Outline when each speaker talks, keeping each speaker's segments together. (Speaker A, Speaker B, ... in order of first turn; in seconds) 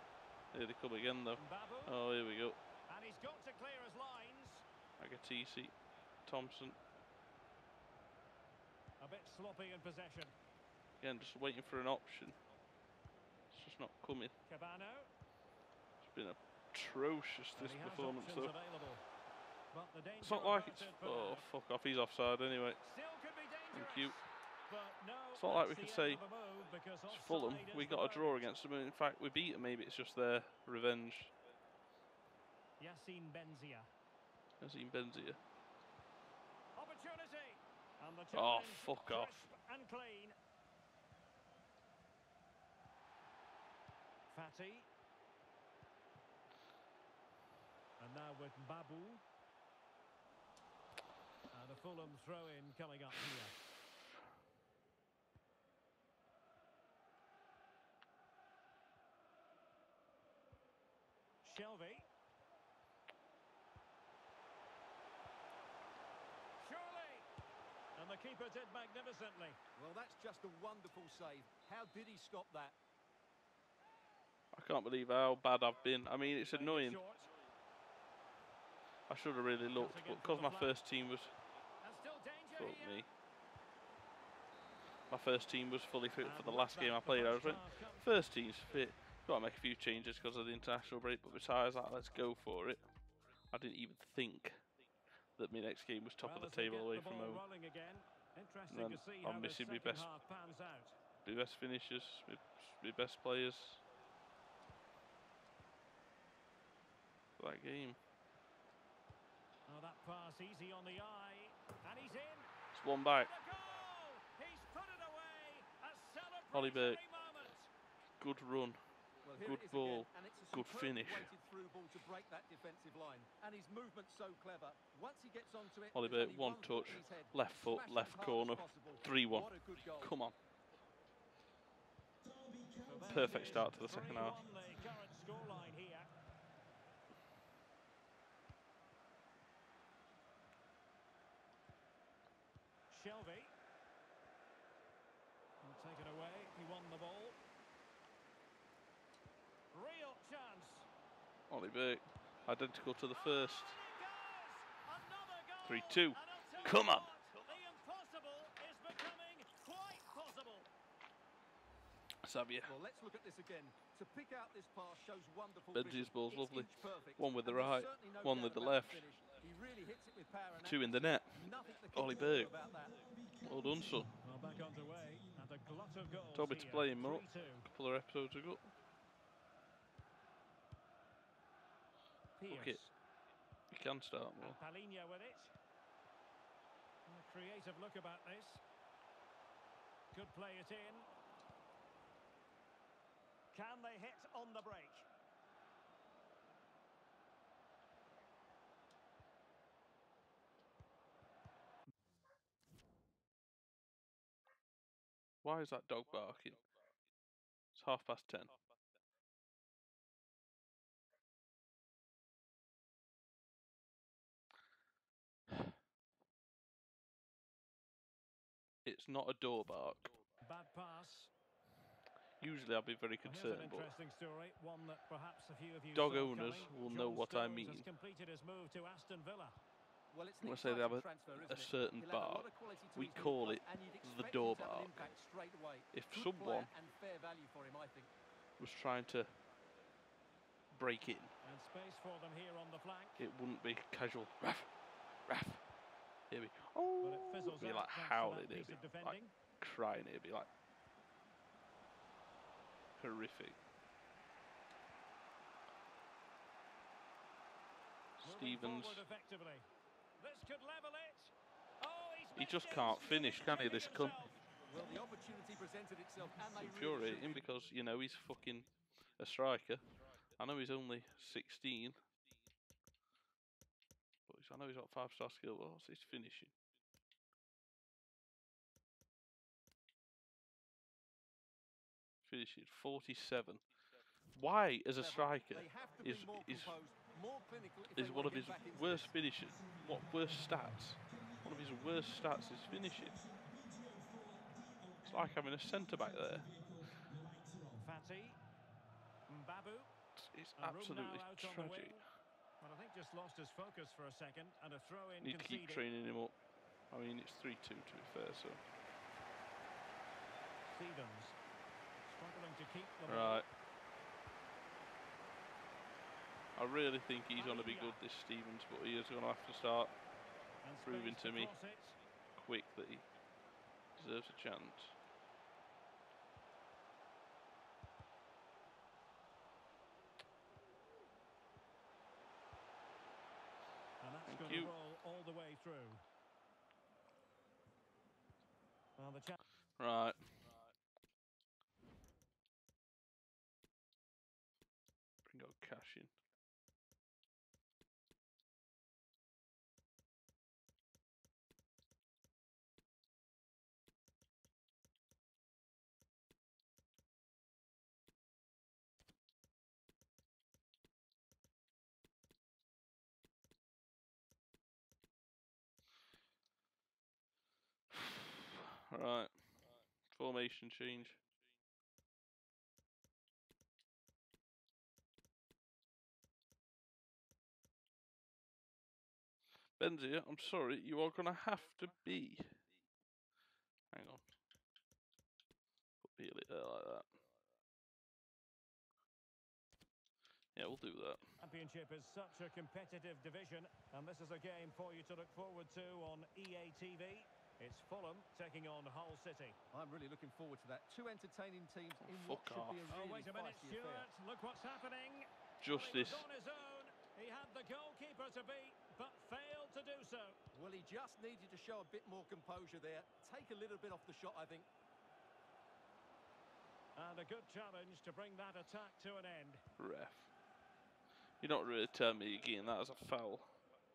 Speaker A: 0.5-2.6, 5.0-5.8, 6.3-6.8, 11.0-12.4, 13.5-14.3, 16.0-18.6, 20.2-22.8, 23.7-24.2, 25.3-26.2, 27.1-31.3, 34.6-35.4, 38.3-39.5, 74.5-77.0, 79.1-81.3, 82.5-83.1, 85.1-92.8, 93.5-94.6, 95.4-97.4, 98.7-100.1, 101.2-103.8, 107.4-108.0, 112.7-113.3, 116.5-117.0, 118.2-118.8, 119.4-121.3, 125.9-130.4, 133.0-134.4, 151.5-153.8, 155.7-157.1, 162.2-162.7, 165.7-169.1, 170.6-172.5, 173.4-174.1, 176.3-178.7, 182.5-182.8, 183.7-184.6, 205.4-206.6, 207.7-208.5, 218.8-220.1, 222.4-223.9, 225.9-227.9, 230.4-235.1, 235.9-236.7, 238.6-239.3, 240.7-241.3, 243.2-244.7, 245.3-245.6, 246.3-250.5, 253.0-253.6, 258.2-259.0, 262.4-264.2, 266.5-268.7, 269.2-272.0, 274.3-276.5, 282.2-283.6, 284.3-286.8, 287.9-293.2, 295.0-296.5, 300.2-302.0, 305.2-306.4, 306.9-308.6, 313.1-313.5, 316.6-319.9, 320.8-321.5, 322.4-323.1, 324.0-324.9, 334.3-334.7, 339.8-340.2, 345.3-346.1, 367.9-369.4, 370.1-371.2, 379.8-382.6, 383.9-384.2, 386.0-387.1, 390.6-391.2, 402.0-402.9, 405.6-406.3, 419.8-420.3, 421.4-423.6
Speaker B: 1.4-2.0, 2.9-4.7, 9.0-10.3, 14.5-15.1, 17.6-19.1, 19.7-21.5, 22.8-28.4, 32.8-33.9, 36.8-40.4, 44.3-44.9, 48.0-49.2, 51.5-53.6, 61.4-62.1, 66.6-67.3, 68.0-69.6, 76.3-77.3, 79.7-80.8, 81.8-83.1, 86.2-88.1, 96.2-101.0, 109.7-112.5, 113.1-117.7, 132.6-136.1, 142.9-143.5, 145.6-147.4, 149.7-150.9, 153.1-160.7, 174.2-177.7, 182.4-182.9, 184.4-185.5, 187.1-188.6, 190.1-191.1, 193.5-195.1, 220.4-221.3, 223.2-229.6, 241.4-243.3, 247.0-249.3, 258.2-259.7, 260.2-264.4, 297.8-298.4, 299.3-299.9, 300.6-302.0, 302.6-305.9, 310.7-311.4, 312.0-313.4, 317.3-318.0, 320.6-322.0, 334.0-336.0, 339.0-339.4, 391.4-399.6, 402.9-410.4, 417.0-419.6
Speaker C: 69.8-72.8, 119.2-130.1, 162.6-173.0, 230.1-238.1, 264.6-267.4, 285.0-289.2, 296.6-297.5, 399.7-404.1, 410.5-414.7